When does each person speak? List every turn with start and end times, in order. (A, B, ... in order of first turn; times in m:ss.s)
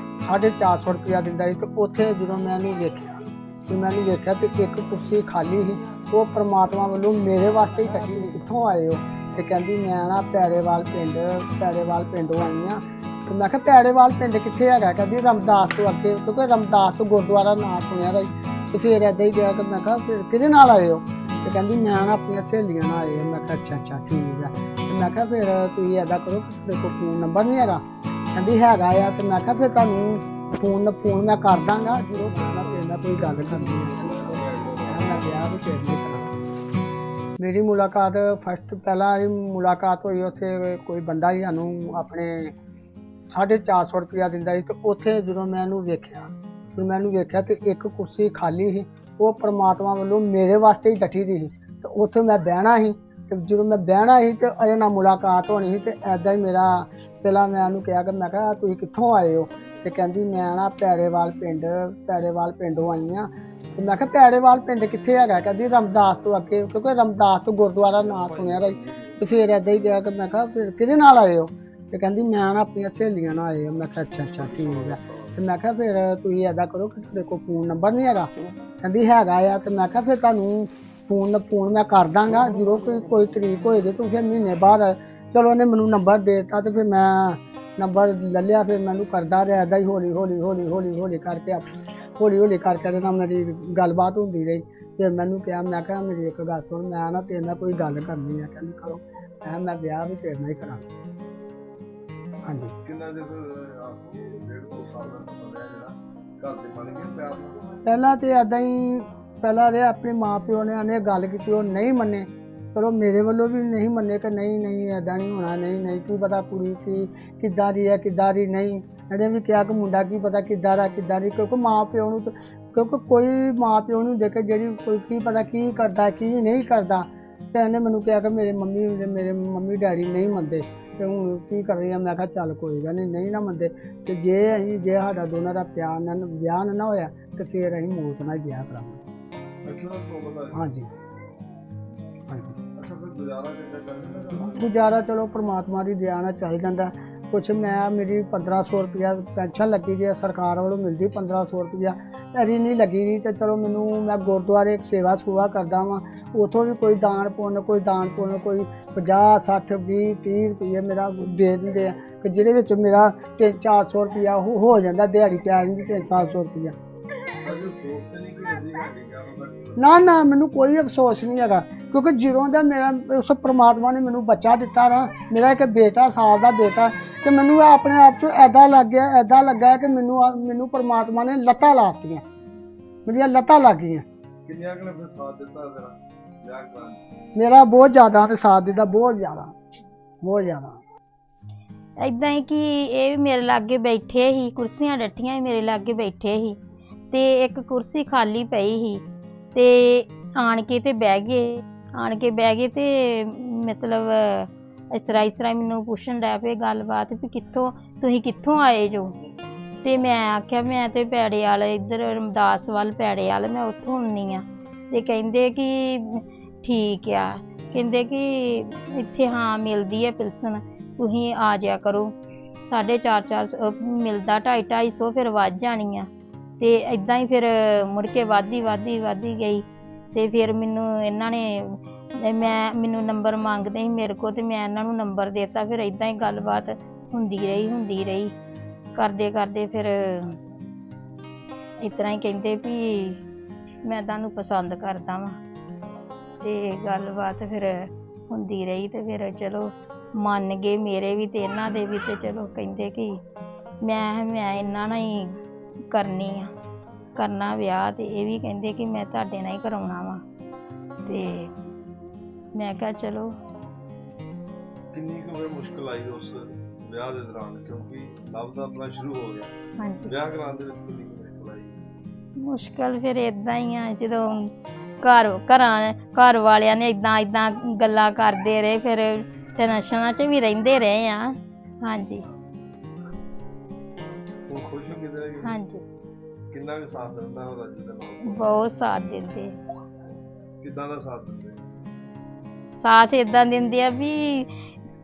0:00.2-0:27.8 A
0:28.3-0:34.3 A
0:33.9-0:35.2 B
0:34.9-0:36.3 A
0:37.4-0:42.5 A
0:43.3-1:18.3 A
1:14.4-1:15.3 B
1:18.8-1:31.7 A
1:32.2-1:40.8 A
1:42.4-1:42.7 A
1:42.8-1:47.7 B
1:47.9-2:19.0 A
2:19.6-2:20.7 B
2:20.5-2:20.9 A
2:22.3-2:22.6 A
2:22.8-2:24.6 B
2:24.4-2:46.8 A
2:47.4-2:50.3 B
2:49.8-3:02.2 A
3:03.1-3:04.0 A
3:04.5-3:07.0 B
3:07.4-3:09.5 A
3:10.2-3:10.8 A
3:12.0-3:16.6 C
3:17.1-3:19.0 C
3:19.6-3:29.2 C
3:29.8-3:46.1 C
3:46.6-3:58.3 C
3:59.0-4:00.4 C
4:01.8-4:03.2 C
4:03.8-4:05.4 C
4:06.4-4:13.1 C
4:13.8-4:15.4 C
4:15.9-4:16.5 C
4:17.2-4:20.2 C
4:21.1-4:21.5 C
4:22.6-4:23.3 C
4:24.9-4:29.5 B
4:29.8-4:30.1 C
4:30.1-4:31.8 B
4:32.4-4:34.5 C
4:35.0-4:42.3 C
4:44.5-4:45.6 B
4:45.4-4:45.8 C
4:46.5-4:48.6 B
4:48.3-4:49.5 C
4:50.6-4:51.6 B
4:52.8-4:54.5 C